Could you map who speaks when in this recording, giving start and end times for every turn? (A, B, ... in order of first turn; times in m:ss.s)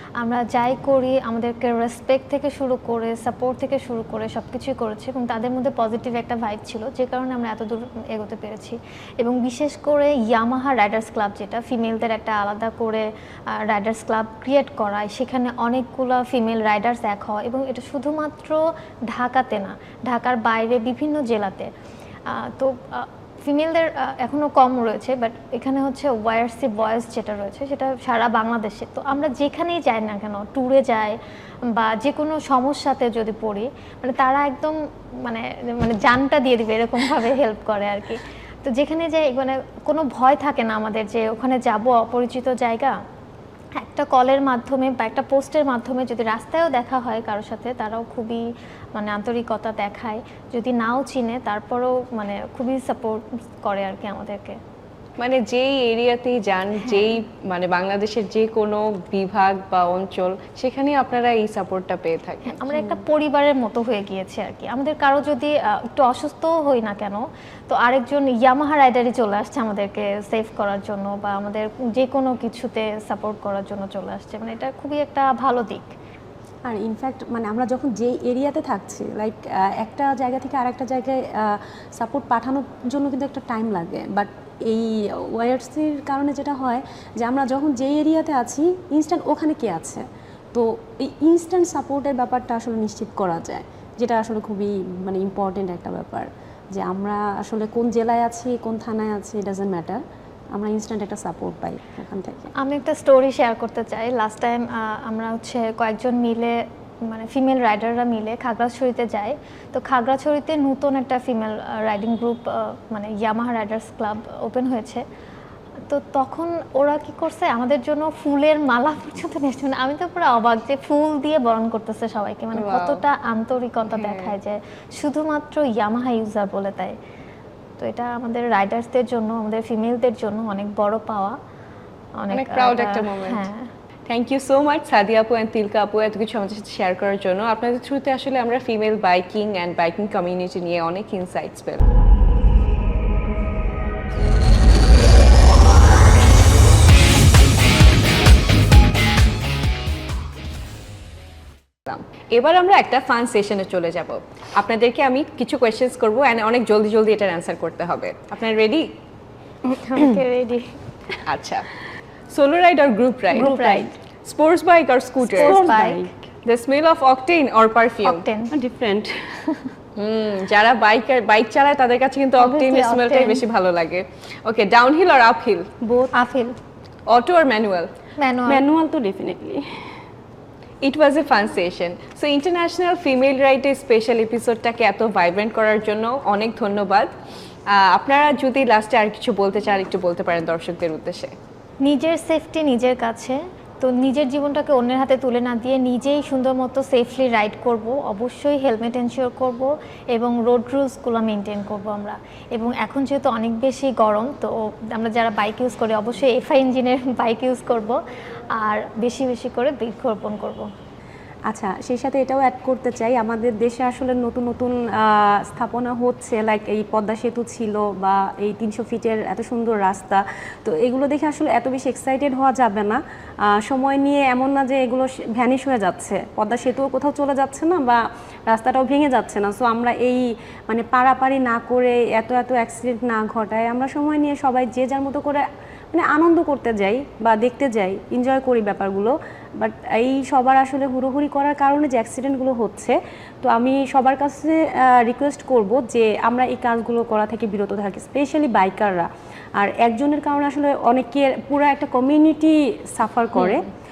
0:00.2-0:21.7 A
0:22.3-0:43.0 A
0:43.8-0:54.6 A
0:55.2-1:02.6 B
0:56.8-0:57.2 A
1:02.5-1:15.9 A
1:16.7-1:40.0 C
1:40.5-1:42.5 C
1:42.6-1:55.0 A
1:55.9-2:07.0 A
2:02.5-2:03.0 B
2:03.8-2:04.3 B
2:07.8-2:11.4 A
2:12.2-2:13.7 A
2:12.3-2:13.5 B
2:14.1-2:21.9 B
2:31.9-2:38.8 B
2:39.7-2:40.7 A
2:41.2-2:41.7 B
2:42.3-2:45.6 B
2:43.3-2:43.9 C
2:43.3-2:43.9 A
2:45.3-2:46.1 A
2:45.4-2:46.1 C
2:46.4-2:48.2 B
2:48.0-2:48.5 A
2:48.5-2:49.6 C
2:50.0-2:55.7 B
2:52.4-2:53.4 A
2:55.8-2:56.1 C
2:56.1-2:56.6 A
2:57.1-2:57.9 B
2:58.2-2:58.6 A
2:58.4-2:59.6 C
3:00.8-3:07.1 B
3:07.7-3:11.3 B
3:11.8-3:28.0 A
3:28.5-3:30.7 A
3:31.5-3:43.0 C
3:43.5-4:09.1 C
4:09.6-4:13.7 C